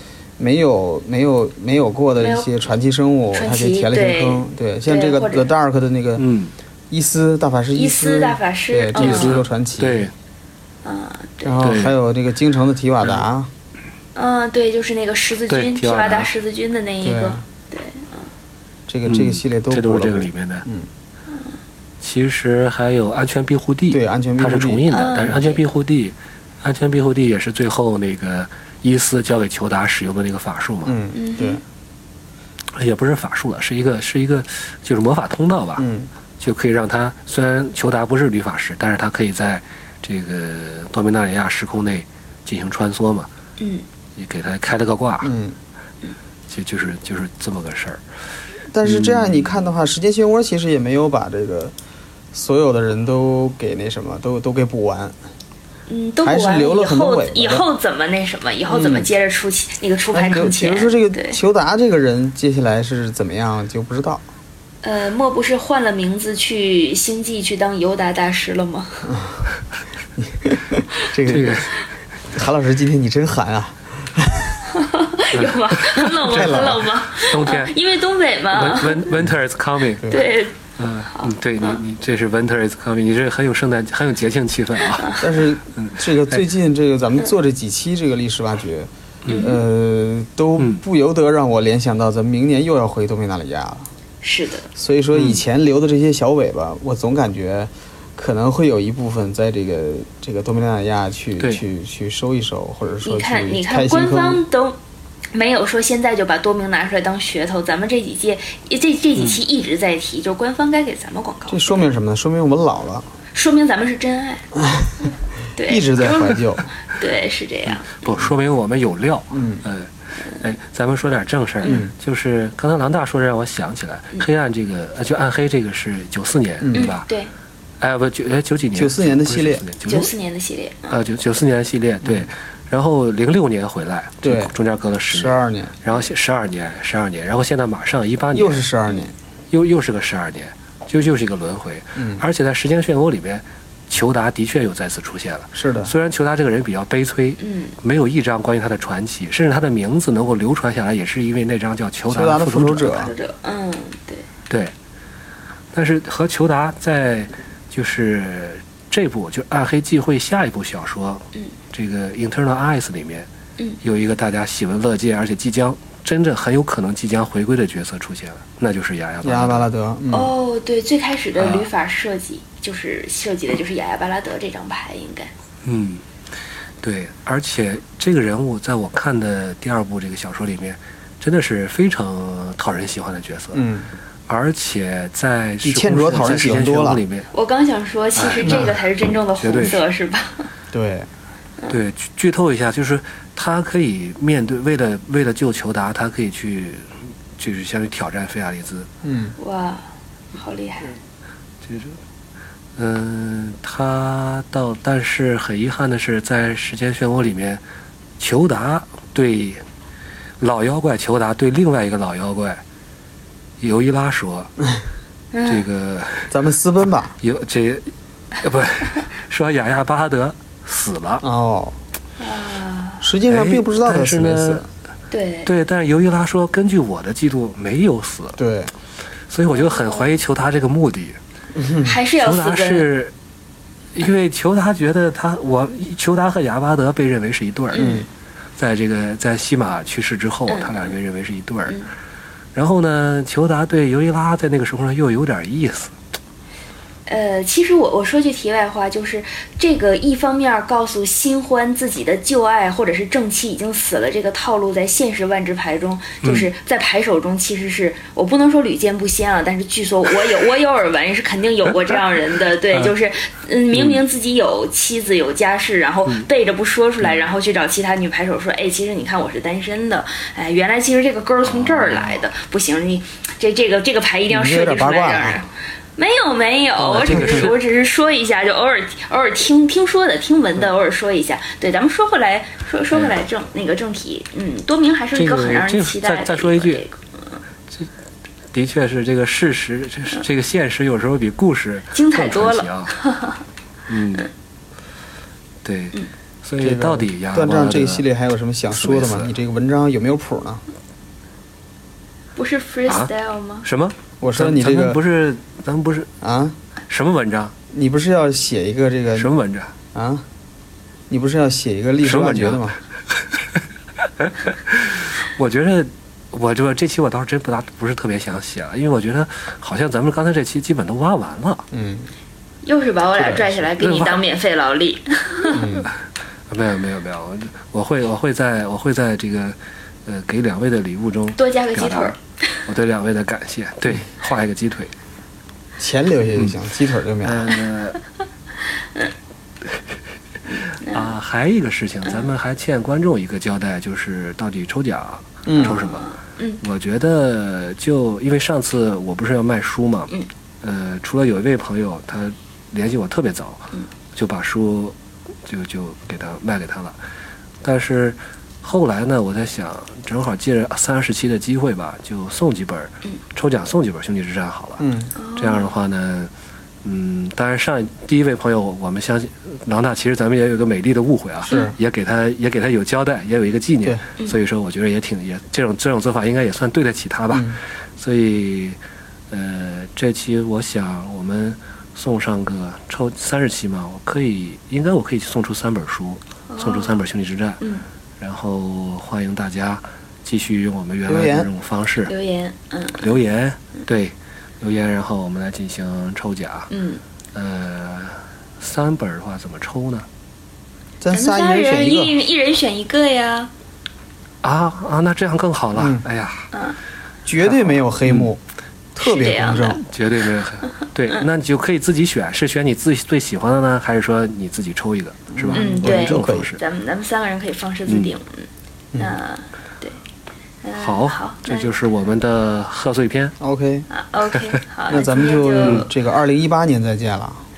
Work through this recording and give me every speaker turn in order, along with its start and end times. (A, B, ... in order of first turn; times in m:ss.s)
0:00.4-0:06.2 A
0:02.2-0:02.5 B
0:03.3-0:05.5 B
0:06.2-0:06.5 C
0:06.9-0:10.1 A
0:07.8-0:09.4 B
0:09.0-0:10.1 C
0:10.8-0:11.6 B
0:11.4-0:13.5 A
0:11.6-0:12.0 C
0:14.2-0:18.3 B
0:15.5-0:16.3 C
0:17.0-0:17.4 A
0:18.9-0:20.9 A
0:19.1-0:20.7 C
0:21.3-0:21.6 B
0:22.0-0:31.0 C
0:23.9-0:25.4 A
0:24.9-0:25.6 B
0:30.8-0:31.6 A
0:31.2-0:31.6 B
0:32.7-0:35.9 C
0:35.8-0:36.1 A
0:36.4-0:43.3 C
0:43.6-0:43.8 B
0:44.2-0:45.3 C
0:45.2-0:45.6 A
0:46.5-0:48.0 C
0:48.7-0:51.7 A
0:48.8-0:49.6 C
0:52.3-0:55.2 A
0:55.9-1:01.4 B
0:56.2-0:57.6 A
0:58.7-0:59.1 A
1:00.1-1:04.2 A
1:04.8-1:09.2 B
1:09.1-1:09.4 A
1:10.2-1:11.6 A
1:11.3-1:11.7 C
1:12.3-1:14.6 A
1:14.7-1:19.2 B
1:15.4-1:17.8 C
1:16.2-1:16.8 A
1:18.5-1:20.1 C
1:20.0-1:20.6 B
1:20.8-1:26.4 C
1:21.1-1:21.8 B
1:24.9-1:25.2 B
1:25.2-1:33.9 A
1:29.2-1:29.6 C
1:29.3-1:29.6 B
1:34.2-1:34.7 B
1:34.8-1:44.4 A
1:35.1-1:35.4 C
1:43.0-1:44.8 B
1:45.3-1:51.9 B
1:51.5-1:53.1 A
1:53.3-1:54.5 B
1:54.6-1:54.9 A
1:55.6-1:58.0 B
1:55.6-1:56.6 A
1:57.8-2:07.1 C
1:59.3-1:59.6 A
2:01.6-2:01.9 A
2:06.6-2:06.9 A
2:06.7-2:07.3 B
2:07.8-2:10.1 C
2:08.8-2:09.6 A
2:09.9-2:11.0 B
2:10.9-2:18.7 C
2:14.2-2:14.5 A
2:15.1-2:15.8 A
2:18.3-2:19.1 A
2:19.5-2:33.1 C
2:22.0-2:22.2 A
2:25.6-2:25.9 A
2:27.4-2:27.7 B
2:32.1-2:33.1 A
2:33.0-2:34.3 B
2:35.7-2:43.3 C
2:43.8-2:49.7 C
2:49.2-2:50.3 A
2:50.1-2:55.3 B
2:51.4-2:51.7 C
2:55.6-2:56.0 C
2:56.8-3:03.7 C
3:03.5-3:03.9 A
3:04.3-3:07.3 C
3:05.6-3:07.0 A
3:07.3-3:10.5 B
3:08.2-3:09.8 C
3:08.4-3:08.7 A
3:10.7-3:11.1 A
3:11.7-3:18.9 C
3:19.0-3:19.4 A
3:19.4-3:21.0 B
3:21.6-3:22.0 C
3:22.8-3:27.6 C
3:28.2-3:29.6 C
3:30.4-3:32.6 C
3:33.6-3:34.5 C
3:35.3-3:35.7 B
3:35.5-3:36.4 C
3:36.3-3:37.2 A
3:37.2-3:41.2 C
3:41.2-3:41.8 A
3:42.2-3:43.1 B
3:43.0-3:44.7 A
3:43.3-3:44.6 C
3:45.1-3:45.5 B
3:45.5-3:48.4 C
3:48.4-3:48.7 A
3:49.3-3:51.2 C
3:49.6-3:50.2 B
3:51.6-3:51.9 A
3:51.8-3:52.9 B
3:52.2-3:53.1 C
3:54.0-3:58.0 C
3:57.7-3:58.0 B
3:57.8-3:58.1 A
3:58.6-4:01.8 C
4:00.5-4:00.9 B
4:02.6-4:06.0 C
4:07.1-4:47.4 B
4:16.2-4:16.5 C
4:23.7-4:24.0 C
4:31.6-4:32.0 C
4:34.3-4:35.4 A
4:36.8-4:37.6 C
4:37.0-4:37.6 A
4:45.2-4:46.8 C
4:48.5-4:52.9 C
4:51.9-4:53.4 B
4:53.9-4:54.3 C
4:55.6-4:58.1 C
4:56.6-5:00.6 A
4:58.7-4:59.3 C
5:02.4-5:03.7 B
5:03.6-5:06.1 C
5:04.2-5:05.0 A
5:06.2-5:06.6 A
5:06.9-5:07.5 C
5:07.7-5:09.3 A
5:09.2-5:09.7 C
5:09.9-5:10.2 A
5:11.1-5:12.8 A
5:12.0-5:12.6 C
5:14.2-5:21.7 C
5:21.7-5:22.1 A
5:22.6-5:25.6 B
5:23.2-5:24.2 C
5:25.5-5:25.9 A
5:26.5-5:32.1 C
5:31.4-5:32.2 B
5:32.7-5:34.9 C
5:35.8-5:37.5 A
5:36.3-5:36.6 C
5:37.2-5:38.0 C
5:40.5-5:41.2 B
5:40.8-5:46.1 C
5:42.0-5:42.3 B
5:45.5-5:45.8 A
5:45.6-5:46.6 B
5:46.6-5:57.0 C
5:57.6-6:04.8 C
6:04.8-6:05.1 A
6:05.2-6:05.7 B
6:05.4-6:06.3 C
6:06.8-6:18.8 C
6:11.5-6:11.7 A
6:11.5-6:11.7 B
6:17.3-6:17.6 A
6:19.3-6:27.6 C
6:26.5-6:27.0 B
6:28.2-6:32.1 C
6:31.1-6:31.5 A
6:32.1-6:33.2 B
6:33.0-6:36.7 C
6:36.7-6:37.0 B
6:37.3-6:40.1 C
6:41.0-6:42.1 A
6:41.1-6:43.5 B
6:44.4-6:46.5 C
6:45.8-6:46.0 A
6:46.5-6:46.8 B
6:47.3-6:48.4 A
6:47.4-6:48.3 C
6:49.0-6:49.8 A
6:49.0-6:49.8 B
6:49.8-6:56.6 C
6:55.3-6:56.5 A
6:55.5-7:00.0 B
6:57.9-6:58.1 C
7:00.6-7:01.7 B
7:00.8-7:03.4 C
7:03.4-7:03.9 A
7:03.9-7:05.9 B
7:04.9-7:07.4 A
7:05.6-7:05.9 C